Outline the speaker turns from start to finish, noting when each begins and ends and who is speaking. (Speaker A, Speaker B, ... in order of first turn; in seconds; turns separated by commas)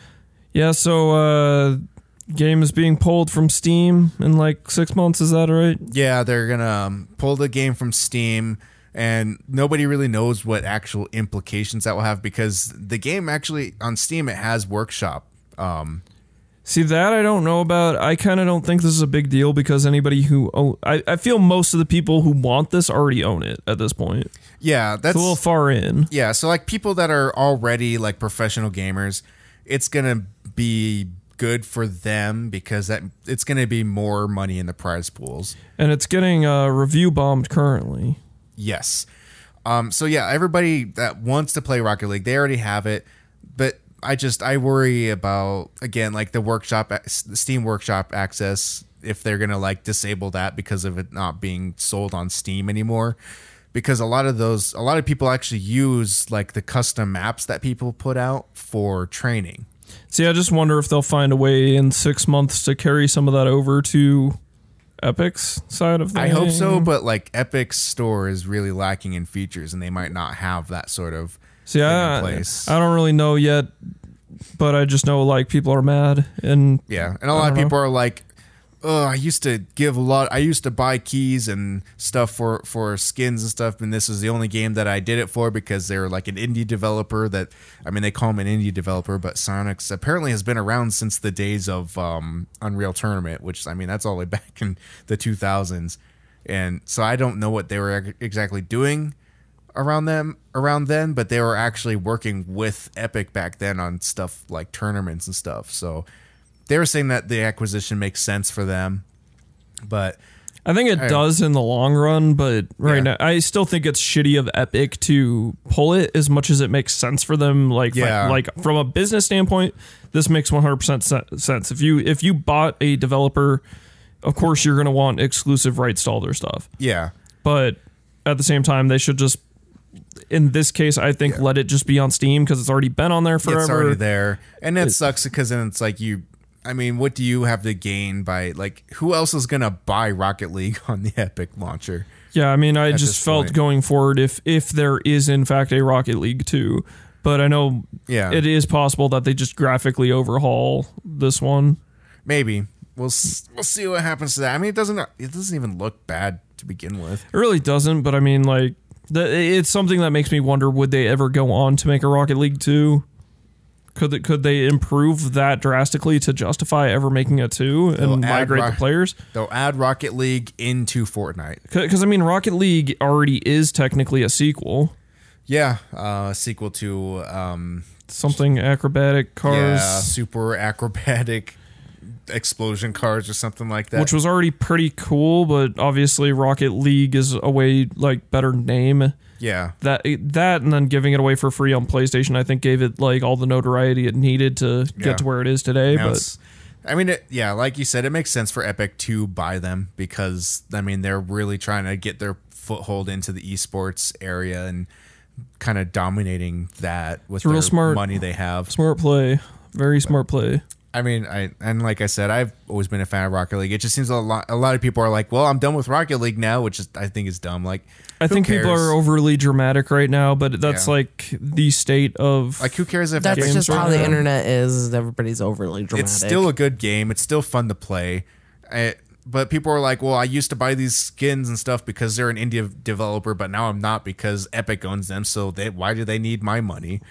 Speaker A: 0.5-5.8, Speaker B: 5.9-16.0, Speaker A: 16.7-24.3, Speaker B: 24.6-25.4, Speaker A: 25.1-26.1, Speaker B: 26.1-35.6, Speaker A: 35.8-38.2, Speaker B: 38.6-39.1, Speaker B: 39.6-53.2, Speaker B: 53.7-59.7, Speaker A: 60.1-64.4, Speaker A: 65.0-66.9, Speaker B: 66.2-72.7, Speaker A: 71.7-73.7, Speaker A: 74.6-77.7, Speaker B: 76.9-78.2, Speaker B: 78.8-99.2, Speaker B: 99.7-106.1, Speaker B: 106.7-109.0, Speaker B: 109.8-110.2, Speaker A: 110.7-123.6, Speaker B: 111.0-111.2, Speaker B: 117.9-118.4, Speaker A: 124.2-126.7, Speaker B: 126.8-127.1, Speaker A: 127.4-129.4, Speaker A: 130.3-134.0, Speaker B: 133.4-142.1, Speaker A: 142.3-151.8, Speaker B: 142.9-143.6, Speaker B: 148.1-148.4, Speaker B: 152.2-157.2, Speaker A: 157.3-163.1, Speaker A: 164.0-169.2, Speaker B: 168.0-168.8, Speaker B: 169.3-171.6, Speaker A: 171.7-174.9, Speaker B: 175.5-178.0, Speaker A: 178.1-180.1, Speaker B: 179.5-181.6, Speaker B: 182.3-184.1, Speaker A: 183.9-189.2, Speaker B: 189.4-189.8, Speaker A: 189.8-196.2, Speaker B: 195.0-195.2, Speaker B: 195.9-204.9, Speaker B: 205.6-208.7, Speaker A: 207.4-208.1, Speaker A: 208.7-210.6, Speaker B: 210.9-219.0, Speaker A: 218.2-222.8, Speaker B: 220.6-220.9, Speaker B: 222.6-224.2, Speaker C: 223.2-226.5, Speaker A: 223.3-224.2, Speaker B: 225.9-237.0